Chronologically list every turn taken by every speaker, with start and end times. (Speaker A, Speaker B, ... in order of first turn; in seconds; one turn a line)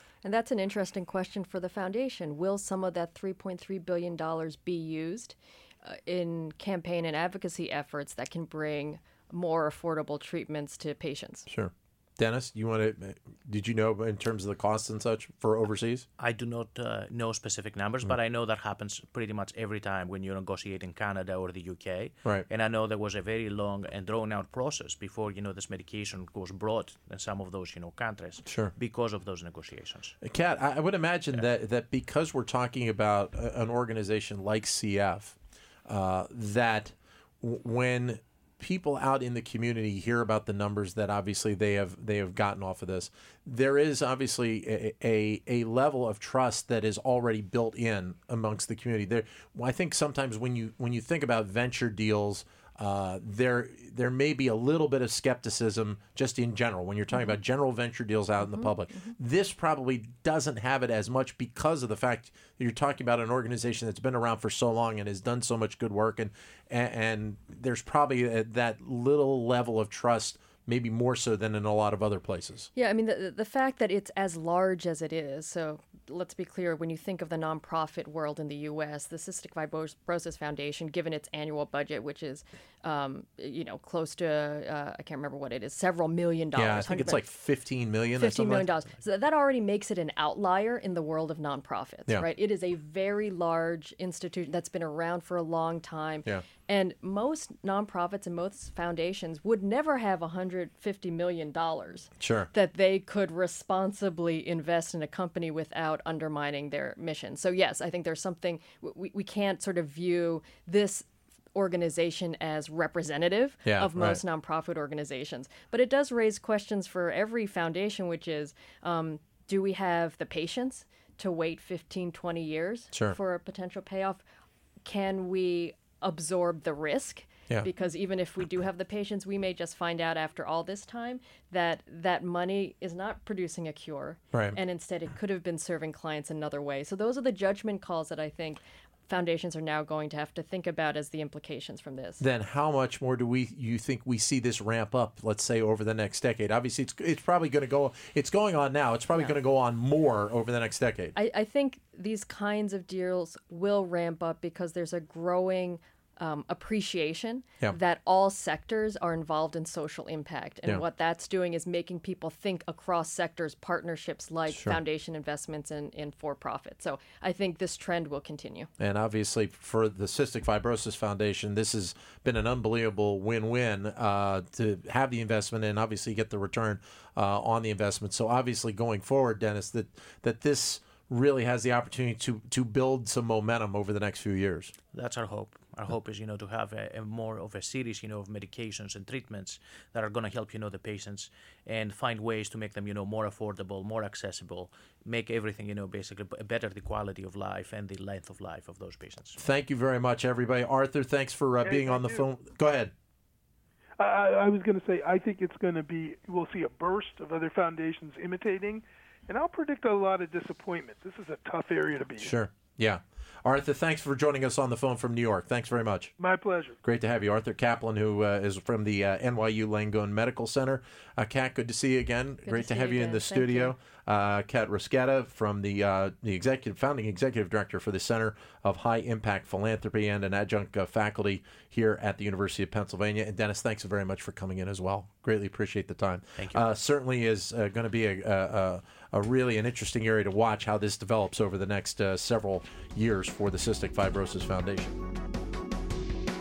Speaker A: 0.2-11.5
Speaker B: 11.5-16.1
Speaker C: 16.2-30.2
Speaker B: 28.4-28.7
Speaker B: 30.2-72.7
Speaker A: 58.4-59.1
Speaker A: 72.8-87.2
Speaker B: 86.5-88.7
Speaker A: 88.2-124.2
Speaker B: 102.2-102.5
Speaker B: 113.7-114.2
Speaker A: 124.8-142.2
Speaker B: 142.2-151.1
Speaker A: 151.2-168.7
Speaker B: 164.5-164.8
Speaker B: 168.8-184.7
Speaker C: 184.9-199.4
Speaker B: 199.4-202.9
Speaker D: 201.6-202.2
Speaker D: 204.0-212.3
Speaker B: 212.2-216.1
Speaker D: 216.2-216.8
Speaker B: 216.8-245.0
Speaker A: 222.4-223.7